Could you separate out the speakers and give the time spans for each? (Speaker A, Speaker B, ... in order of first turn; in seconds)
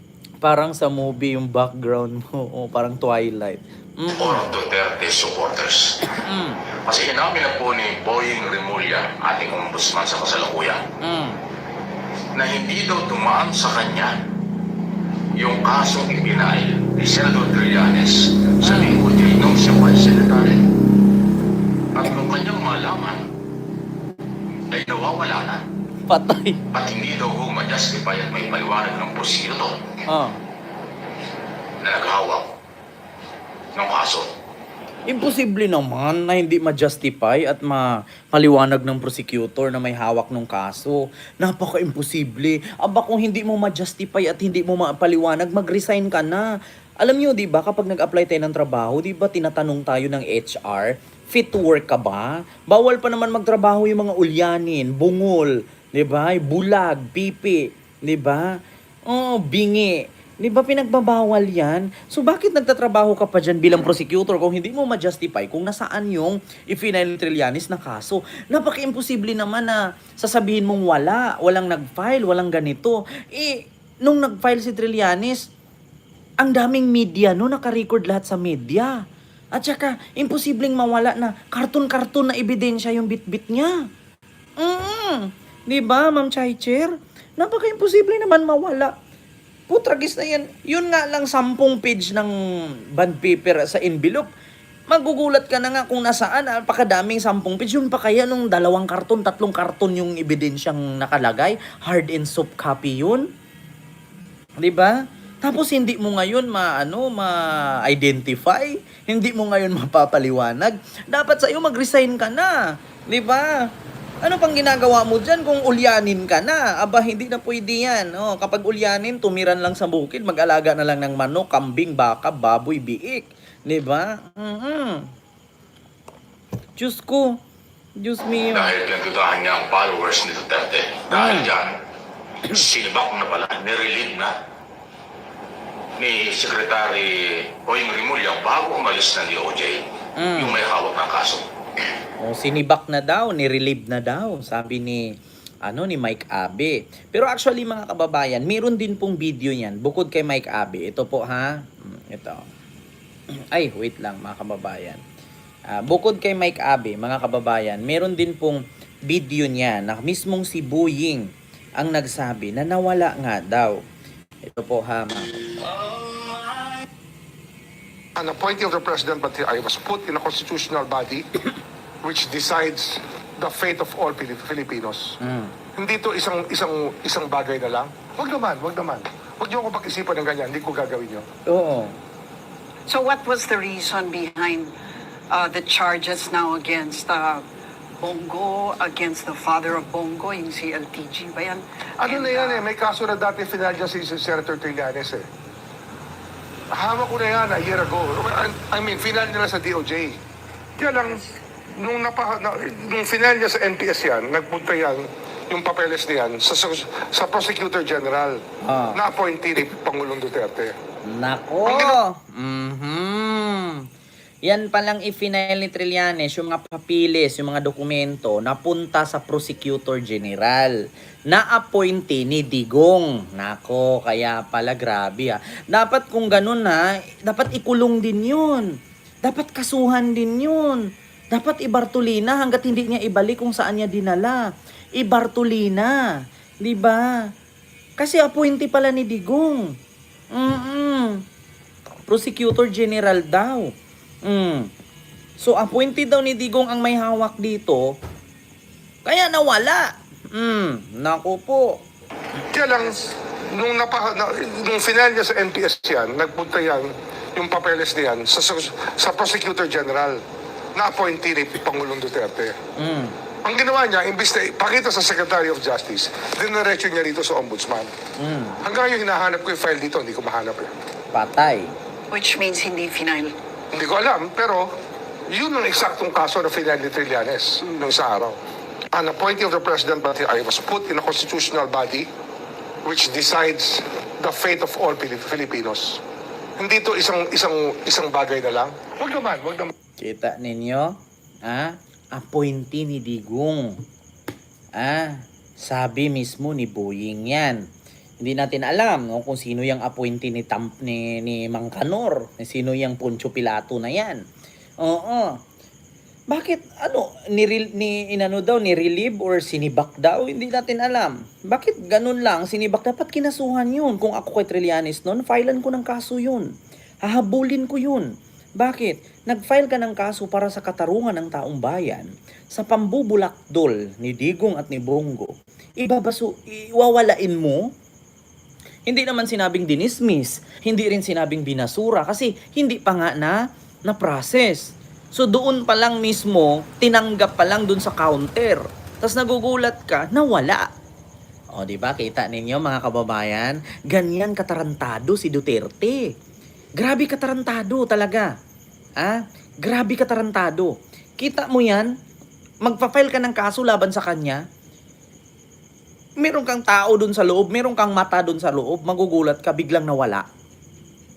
Speaker A: 0.4-4.4, 6.1-6.6, 11.0-11.4, 18.6-19.0, 26.1-26.6, 30.1-30.4, 35.1-46.5, 47.0-75.5, 76.4-78.9, 79.6-83.8, 84.6-88.9, 89.7-92.3, 93.0-94.3, 94.9-103.3, 104.6-113.6, 114.2-125.1, 126.8-127.4, 128.0-128.7, 131.1-131.5, 140.2-140.6, 142.2-145.1, 145.6-152.4, 153.5-155.0, 155.7-163.8, 164.4-165.8, 175.2-175.5, 181.5-182.0, 208.6-209.0, 211.0-213.9, 214.4-220.8, 221.3-228.7, 229.2-234.4, 235.0-236.0, 236.6-237.3, 238.0-239.8, 240.3-241.2, 242.1-243.7, 244.2-244.7, 245.4-247.9, 249.1-251.8, 262.8-263.1, 268.2-268.6, 271.1-271.7, 290.0-293.8, 294.8-297.6, 298.2-304.2, 304.8-305.4, 306.3-316.5, 317.1-327.7, 328.9-340.7, 341.5-346.1, 346.8-348.3, 349.0-351.9, 352.6-354.4, 356.2-360.3
Speaker B: 4.1-6.0, 6.9-10.9, 12.3-14.1, 15.4-20.6, 21.9-23.2, 24.7-25.6, 26.7-29.8, 31.8-32.5, 33.8-34.3, 128.5-131.7, 132.4-134.3, 136.0-139.8, 140.4-141.5
Speaker C: 168.2-171.3, 172.0-175.2, 175.8-181.3, 192.0-195.3, 196.7-200.2, 200.8-201.2, 201.8-208.4, 208.9-210.8, 211.7-212.0, 252.5-260.2, 260.8-262.6, 263.4-267.9, 268.6-270.7, 273.7-274.7, 275.3-278.4, 278.9-282.1, 282.8-286.0, 286.6-289.7
Speaker D: 182.9-184.7, 185.3-187.4, 188.0-192.7, 272.1-273.3